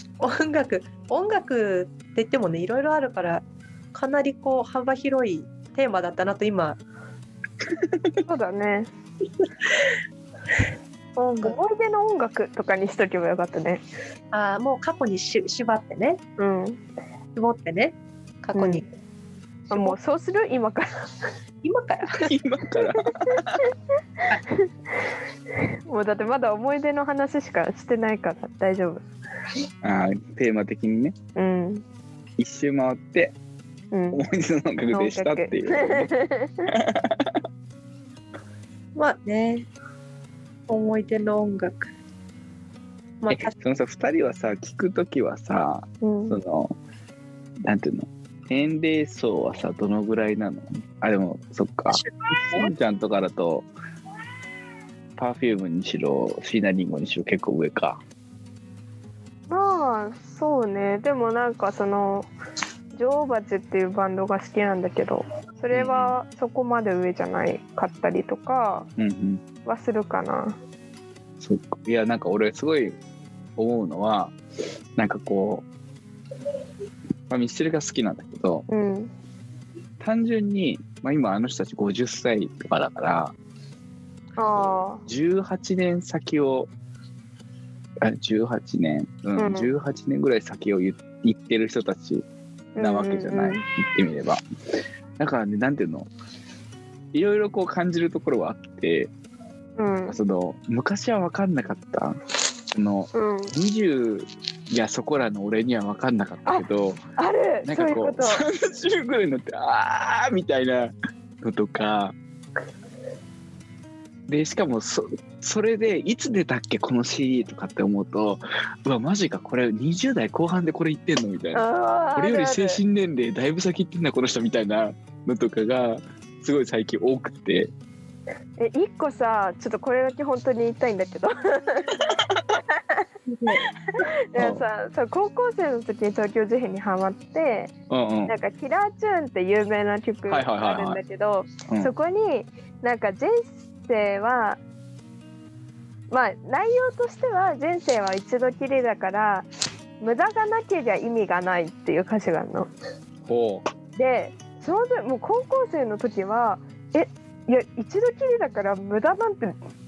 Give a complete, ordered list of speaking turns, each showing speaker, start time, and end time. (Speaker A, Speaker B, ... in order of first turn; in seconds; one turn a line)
Speaker A: 0.2-6.8
Speaker B: 7.8-8.1
Speaker C: 8.2-8.9
Speaker A: 11.2-11.6
Speaker C: 11.4-13.8
Speaker A: 14.3-16.2
Speaker C: 16.4-16.8
Speaker A: 17.4-18.9
Speaker C: 18.6-18.8
Speaker A: 19.7-20.0
Speaker C: 19.7-20.9
Speaker A: 21.6-22.3
Speaker B: 22.2-23.6
Speaker C: 25.9-29.0
Speaker B: 29.8-31.1
Speaker C: 31.4-31.8
Speaker B: 32.4-33.4
Speaker C: 33.9-34.2
Speaker B: 34.1-36.1
Speaker C: 34.9-36.5
Speaker B: 36.8-37.4
Speaker A: 39.0-39.7
Speaker A: 40.7-41.9
Speaker A: 43.2-43.5
Speaker B: 43.3-46.8
Speaker C: 46.0-46.4
Speaker B: 47.6-53.7
Speaker A: 51.9-52.7
Speaker B: 55.1-58.0
Speaker C: 59.5-62.3
Speaker C: 62.9-68.9
Speaker B: 65.7-66.2
Speaker B: 69.0-69.4
Speaker C: 69.6-70.6
Speaker B: 71.4-73.0
Speaker B: 73.6-74.4
Speaker B: 75.0-75.7
Speaker B: 77.3-78.7
Speaker C: 78.7-79.1
Speaker B: 80.0-83.3
Speaker C: 84.4-85.0
Speaker B: 84.6-86.7
Speaker B: 88.0-94.4
Speaker C: 89.4-89.7
Speaker C: 92.8-93.6
Speaker B: 95.2-96.1
Speaker B: 97.1-99.1
Speaker C: 99.8-100.2
Speaker B: 100.1-102.2
Speaker B: 102.7-107.0
Speaker C: 103.1-103.5
Speaker C: 107.2-108.4
Speaker B: 107.6-112.1
Speaker B: 114.3-127.7
Speaker C: 121.5-122.8
Speaker C: 128.6-132.0
Speaker A: 133.3-133.7
Speaker C: 134.0-137.7
Speaker B: 134.4-134.6
Speaker B: 137.9-138.3
Speaker C: 138.3-144.6
Speaker B: 140.3-141.0
Speaker B: 141.7-141.9
Speaker C: 146.1-149.5
Speaker C: 150.0-152.7
Speaker B: 153.3-153.6
Speaker C: 153.9-159.6